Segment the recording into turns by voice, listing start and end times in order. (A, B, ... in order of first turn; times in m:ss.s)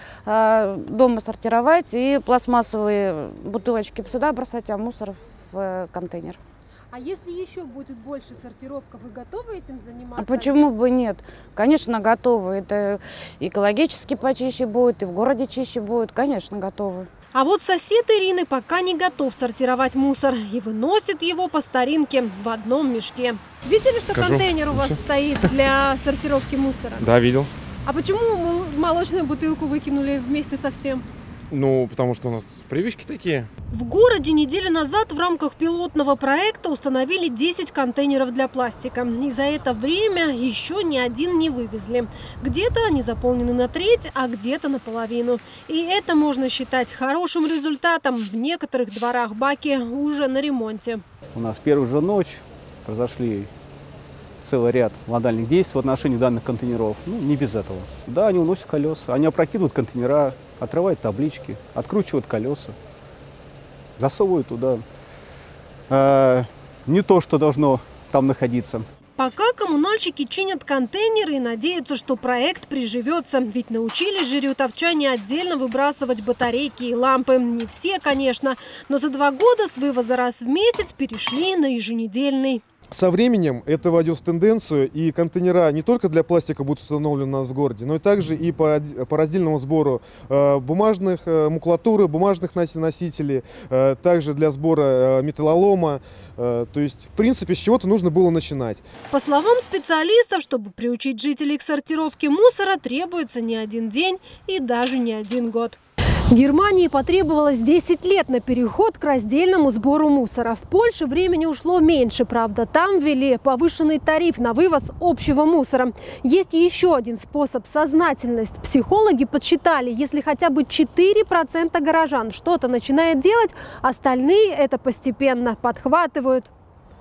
0:00.2-0:06.4 A
0:06.9-0:10.6 B
0:10.2-0:17.1 A
0:17.3-0:27.1 B
0:24.1-0:25.0 C
0:27.0-0:27.5 C
0:27.8-0:31.0 B
0:31.5-0:33.5 C
0:33.7-0:51.0 B
0:51.3-0:53.5 D
0:54.4-1:02.7 D
1:04.0-1:04.8 D
1:05.9-1:08.8 D
1:09.2-1:22.6 B
1:22.9-1:38.8 E
1:39.1-1:45.8 B
1:46.3-2:06.5 B